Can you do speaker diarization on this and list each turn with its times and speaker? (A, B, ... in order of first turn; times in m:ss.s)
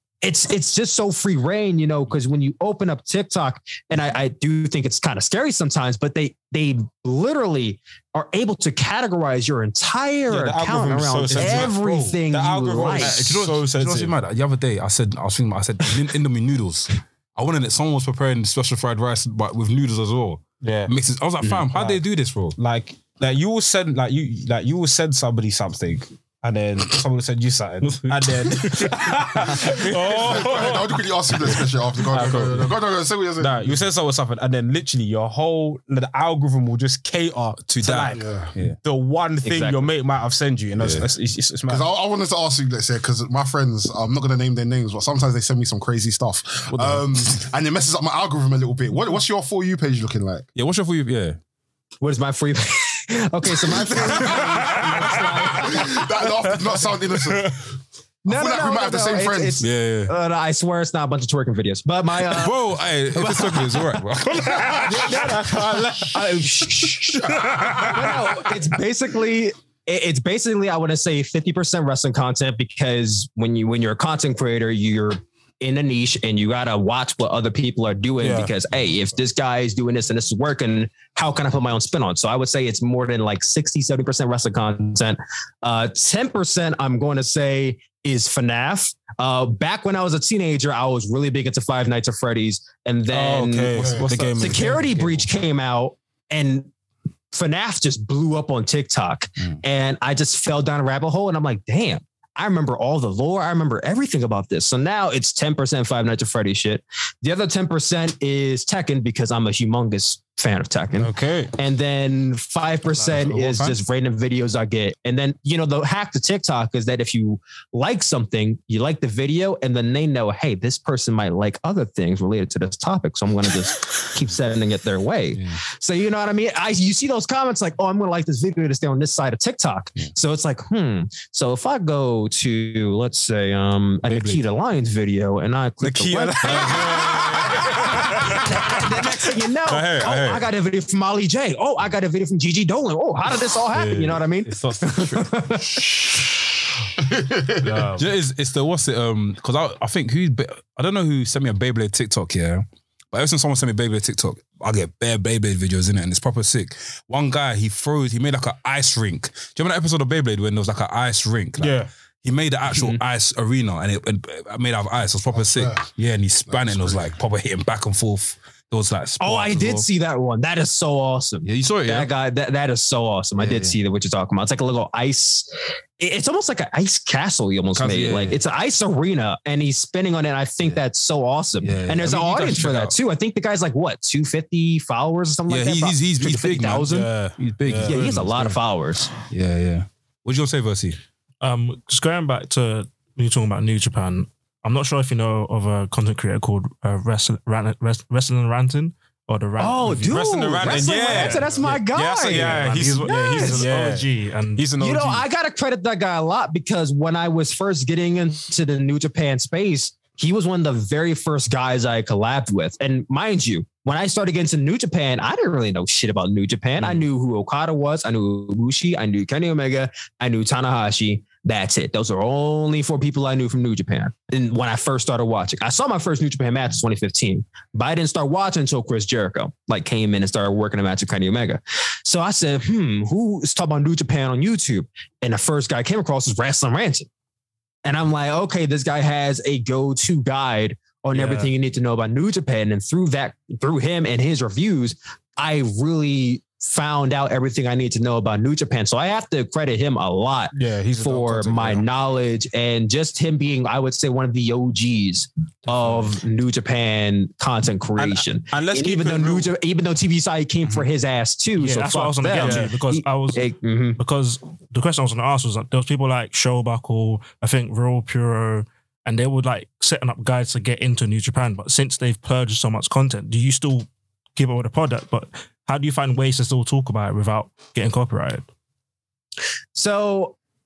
0:00.2-0:13.3 A
0:10.3-0:14.1 B
0:11.3-0:12.1 C
0:12.8-0:22.6 C
0:20.6-0:20.9 B
0:21.7-0:22.0 B
0:22.6-0:32.8 B
0:27.8-0:30.9 C
0:30.0-0:33.8 D
0:32.2-0:32.7 C
0:33.4-0:41.9 B
0:37.7-0:38.8 C
0:38.1-0:38.5 D
0:39.4-0:39.9 A
0:40.8-0:41.0 C
0:41.7-0:50.5 D
0:46.7-0:47.4 C
0:50.5-0:51.4 C
0:52.0-0:56.0 A
0:53.8-0:57.7 D
0:53.8-0:55.8 C
0:58.2-1:04.0 A
0:58.2-0:59.6 D
0:59.6-1:00.1 C
1:02.2-1:05.4 C
1:04.8-1:36.7 A
1:04.8-1:06.1 B
1:07.3-1:07.9 D
1:07.3-1:08.3 C
1:18.2-1:18.5 B
1:33.1-1:35.2 B
1:33.8-1:34.1 D
1:34.1-1:34.7 C
1:37.3-2:26.0 A
1:51.0-1:51.5 B
1:53.1-1:53.8 C
2:14.1-2:14.4 C
2:15.8-2:18.4 B
2:16.1-2:19.1 C
2:19.6-2:20.5 C
2:23.8-2:25.6 C
2:27.0-2:27.7 D
2:27.6-2:28.0 B
2:27.9-2:49.9 C
2:41.6-2:41.9 B
2:45.3-2:45.8 D
2:46.5-2:47.1 D
2:49.2-2:55.5 A
2:51.4-2:52.1 C
2:53.4-2:53.7 C
2:56.0-3:07.1 A
2:57.7-2:58.4 C
3:01.6-3:03.0 C
3:05.5-3:08.6 C
3:07.0-3:08.0 B
3:07.8-3:09.1 A
3:09.3-3:11.0 C
3:11.4-3:21.4 E
3:19.6-3:23.7 A
3:19.8-3:25.2 B
3:22.3-3:24.7 E
3:24.8-3:57.1 A
3:57.8-4:24.0 A
4:01.1-4:01.5 B
4:10.5-4:11.8 B
4:18.0-4:19.5 B
4:21.6-4:38.4 E
4:22.3-4:22.7 B
4:39.8-4:40.4 A